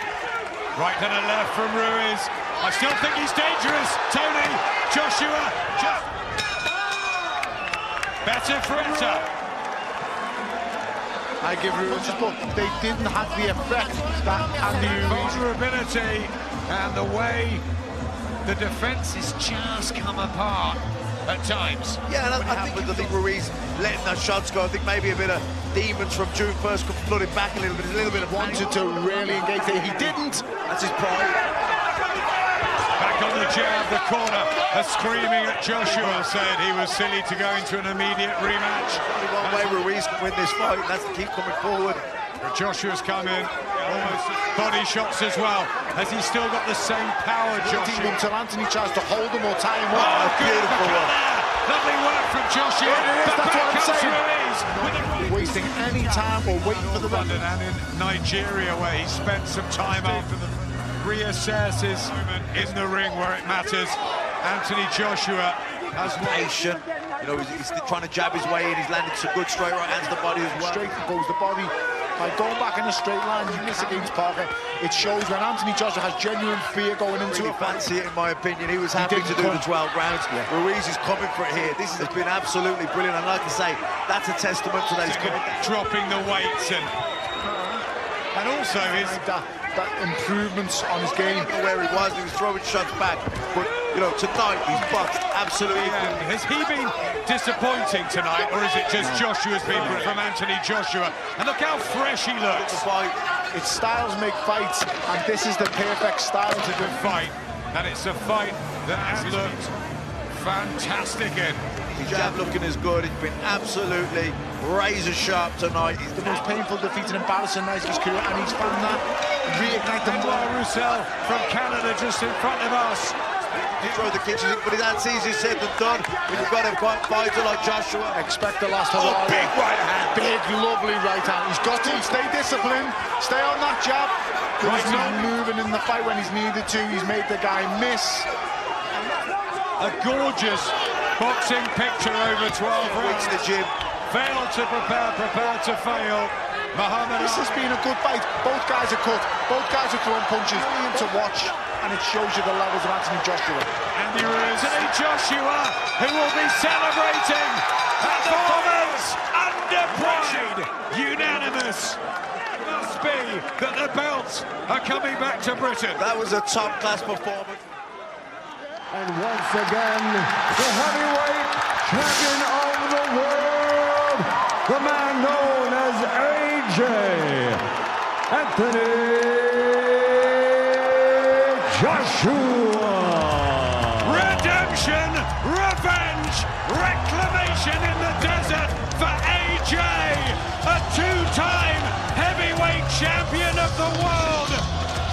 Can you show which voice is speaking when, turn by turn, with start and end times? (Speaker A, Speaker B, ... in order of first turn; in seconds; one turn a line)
Speaker A: 0.7-6.1
Speaker A: 8.2-9.3
Speaker B: 11.4-15.4
Speaker A: 14.7-17.6
Speaker A: 18.4-22.0
Speaker C: 22.1-28.6
Speaker B: 22.3-23.2
Speaker B: 28.3-30.5
Speaker C: 30.6-31.4
Speaker A: 33.0-39.8
Speaker C: 38.7-42.0
Speaker A: 42.4-48.2
Speaker B: 47.6-50.2
Speaker A: 49.9-55.9
Speaker C: 50.0-51.1
Speaker B: 52.8-57.4
Speaker A: 56.7-66.5
Speaker C: 66.0-71.0
Speaker B: 70.5-77.9
Speaker C: 77.2-85.7
Speaker B: 78.9-79.7
Speaker B: 82.0-82.2
Speaker A: 85.0-86.9
Speaker B: 87.4-87.8
Speaker A: 88.3-89.2
Speaker B: 88.7-91.5
Speaker C: 91.4-96.2
Speaker A: 95.6-102.8
Speaker B: 99.0-100.1
Speaker C: 102.5-103.2
Speaker B: 103.5-107.2
Speaker A: 106.6-109.7
Speaker C: 109.1-109.5
Speaker A: 110.3-111.6
Speaker C: 111.9-116.5
Speaker B: 116.1-120.5
Speaker A: 120.0-123.2
Speaker C: 123.5-128.2
Speaker A: 123.8-124.2
Speaker B: 128.1-129.5
Speaker C: 128.9-130.2
Speaker B: 130.1-138.3
Speaker A: 134.6-135.3
Speaker A: 139.8-143.5
Speaker C: 142.8-143.7
Speaker A: 144.1-147.7
Speaker B: 147.2-153.7
Speaker A: 153.9-162.0
Speaker A: 162.6-166.0
Speaker C: 166.0-167.6
Speaker D: 168.9-177.6
Speaker D: 178.3-180.1
Speaker D: 181.4-184.1
Speaker A: 184.0-194.6